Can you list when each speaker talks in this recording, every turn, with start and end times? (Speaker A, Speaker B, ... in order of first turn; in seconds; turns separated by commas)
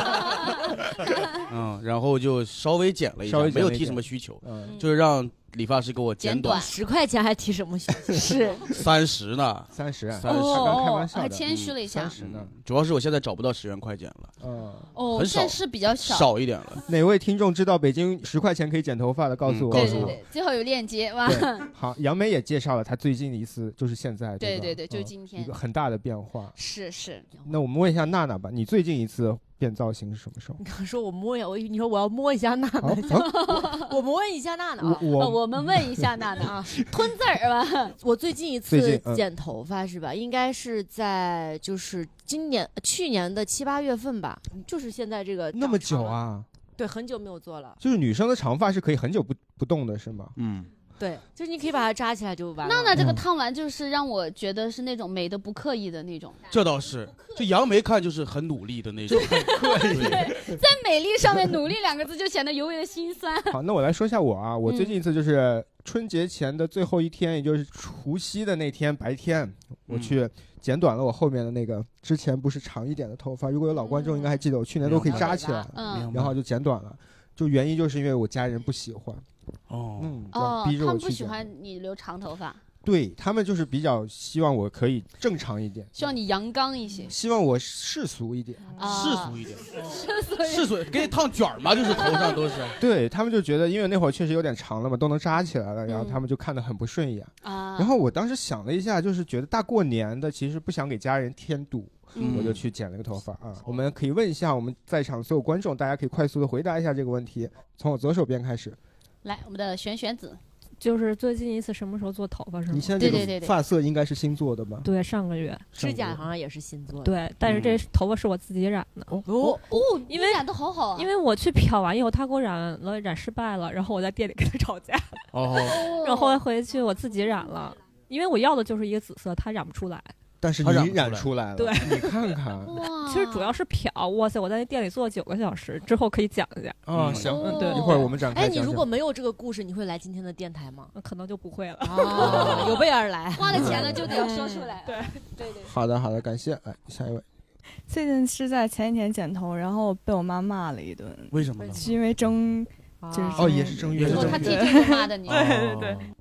Speaker A: 1.5-6.7, Speaker B: 3.3-4.8, Speaker C: 6.2-6.7, Speaker D: 6.5-8.2, Speaker C: 8.2-8.7, Speaker A: 8.7-10.9, Speaker B: 9.7-12.5, Speaker C: 10.2-12.2, Speaker A: 11.5-14.3, Speaker B: 14.4-14.9, Speaker C: 14.9-16.3, Speaker A: 15.1-16.8, Speaker B: 16.9-20.2, Speaker A: 19.4-20.2, Speaker C: 19.7-21.7, Speaker B: 21.2-26.5, Speaker C: 24.4-25.5, Speaker C: 26.6-27.3, Speaker B: 27.4-30.6, Speaker D: 30.6-35.1, Speaker B: 32.8-33.5, Speaker C: 33.2-33.9, Speaker B: 34.8-36.1, Speaker C: 35.1-38.0, Speaker D: 36.5-36.8, Speaker D: 38.0-46.2, Speaker B: 38.7-39.2, Speaker B: 45.5-46.5, Speaker D: 46.8-47.8, Speaker B: 47.8-50.4, Speaker A: 50.4-50.7, Speaker D: 51.0-53.0, Speaker C: 52.6-56.4, Speaker B: 53.0-53.2, Speaker A: 56.5-60.3, Speaker B: 59.1-60.6, Speaker C: 59.1-63.6, Speaker B: 63.5-79.2, Speaker C: 64.7-65.0, Speaker A: 69.9-70.2, Speaker C: 73.8-74.3, Speaker A: 74.8-76.4, Speaker C: 75.7-76.1, Speaker A: 79.7-80.2, Speaker B: 80.0-81.5, Speaker C: 80.3-82.6, Speaker B: 82.8-85.9, Speaker C: 86.0-87.1, Speaker B: 87.1-88.7, Speaker C: 88.8-91.2, Speaker A: 88.8-89.8, Speaker A: 90.4-92.8, Speaker C: 92.0-92.4, Speaker B: 92.8-108.8, Speaker C: 95.9-96.2, Speaker C: 97.4-98.0, Speaker A: 102.2-102.6, Speaker C: 109.2-110.4, Speaker E: 110.8-113.2, Speaker B: 112.7-114.9, Speaker C: 113.0-113.5, Speaker E: 114.8-115.7, Speaker D: 115.7-117.2, Speaker B: 115.8-116.2, Speaker E: 117.0-119.2, Speaker A: 117.4-117.8, Speaker D: 119.2-119.7, Speaker C: 119.6-121.1, Speaker E: 120.1-125.3, Speaker A: 125.3-125.9, Speaker C: 125.7-126.4, Speaker E: 126.0-130.1, Speaker B: 130.4-132.8, Speaker A: 130.6-131.3, Speaker E: 131.6-132.1, Speaker C: 132.7-133.5, Speaker E: 133.1-136.8, Speaker B: 136.9-138.9, Speaker A: 136.9-137.4, Speaker C: 137.3-138.1, Speaker E: 137.4-137.9, Speaker D: 138.2-140.9, Speaker E: 140.9-142.8, Speaker D: 141.8-144.4, Speaker C: 142.1-142.5, Speaker C: 143.3-145.7, Speaker B: 143.5-144.0, Speaker E: 144.8-145.2, Speaker B: 145.7-147.2, Speaker F: 147.9-153.8, Speaker A: 151.3-151.8, Speaker D: 153.0-153.6, Speaker B: 153.4-154.6, Speaker A: 154.0-154.6, Speaker C: 154.0-155.5, Speaker F: 154.7-155.1, Speaker A: 155.3-156.1